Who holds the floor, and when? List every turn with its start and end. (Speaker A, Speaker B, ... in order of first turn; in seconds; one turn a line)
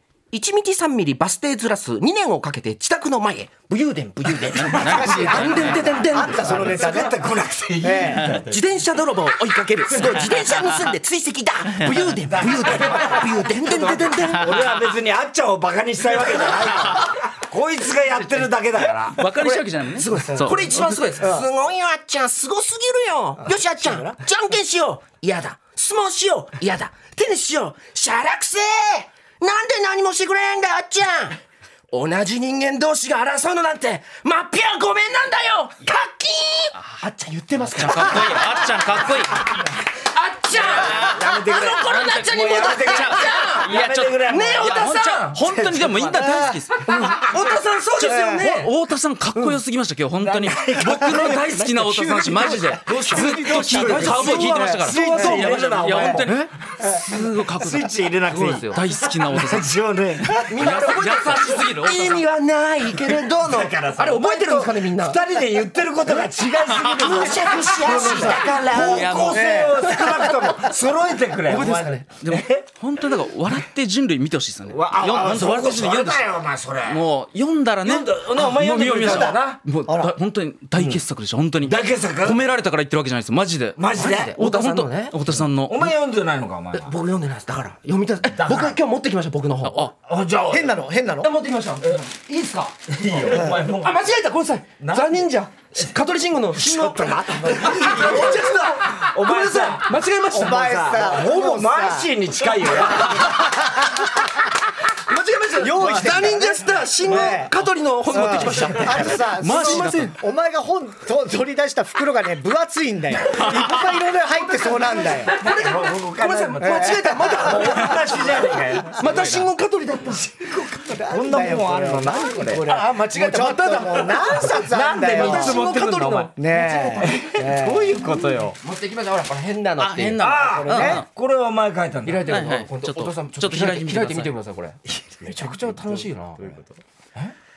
Speaker A: 0.3-7.0
Speaker B: 4.5-6.0
Speaker C: 4.8-7.2
Speaker D: 4.8-8.6
Speaker C: 7.8-8.4
Speaker A: 8.5-14.6
Speaker D: 12.3-19.5
Speaker C: 16.2-17.1
Speaker B: 19.1-21.0
Speaker C: 19.4-21.5
Speaker A: 20.0-38.7
Speaker C: 23.4-24.2
Speaker B: 37.7-39.5
Speaker A: 40.1-45.4
Speaker B: 40.5-47.1
Speaker D: 40.7-41.9
Speaker D: 42.4-46.2
Speaker C: 42.5-43.2
Speaker C: 45.8-47.1
Speaker A: 46.9-48.7
Speaker C: 48.0-48.5
Speaker B: 48.1-57.9
Speaker D: 50.2-52.0
Speaker C: 50.9-55.3
Speaker A: 52.9-56.5
Speaker D: 53.1-60.9
Speaker C: 55.9-56.2
Speaker A: 58.3-58.9
Speaker B: 58.7-59.7
Speaker B: 60.3-62.2
Speaker A: 60.5-65.2
Speaker D: 62.9-72.7
Speaker B: 66.7-67.3
Speaker A: 67.0-68.7
Speaker C: 67.2-70.6
Speaker B: 68.5-69.5
Speaker A: 71.5-72.1
Speaker B: 72.2-76.3
Speaker D: 74.7-77.0
Speaker B: 76.9-85.9
Speaker D: 77.8-79.6
Speaker C: 79.0-80.2
Speaker D: 80.8-81.0
Speaker D: 81.6-82.4
Speaker D: 83.8-84.4
Speaker A: 83.9-85.2
Speaker D: 85.5-86.9
Speaker A: 86.7-89.9
Speaker D: 88.3-88.8
Speaker B: 89.7-89.9
Speaker D: 90.0-90.8
Speaker C: 90.5-91.3
Speaker A: 91.2-92.1
Speaker D: 91.8-94.0
Speaker A: 93.2-101.1
Speaker C: 93.3-93.6
Speaker D: 94.8-95.3
Speaker D: 96.5-103.5
Speaker C: 97.0-98.6
Speaker C: 100.3-104.5
Speaker A: 105.1-110.1
Speaker C: 105.5-107.6
Speaker C: 108.1-115.4
Speaker D: 108.9-109.2
Speaker B: 108.9-110.2
Speaker B: 113.3-113.7
Speaker A: 115.3-120.3
Speaker D: 115.3-119.4
Speaker C: 116.6-117.9
Speaker B: 119.0-119.4
Speaker D: 120.1-122.8
Speaker C: 120.9-125.6
Speaker A: 122.7-124.5
Speaker D: 124.1-126.3
Speaker A: 125.1-127.2
Speaker C: 126.4-128.1
Speaker D: 127.0-128.6
Speaker A: 128.6-130.2
Speaker B: 129.8-131.1
Speaker D: 130.2-132.4
Speaker C: 130.4-131.0
Speaker A: 132.1-137.3
Speaker B: 132.3-134.3
Speaker D: 134.8-136.6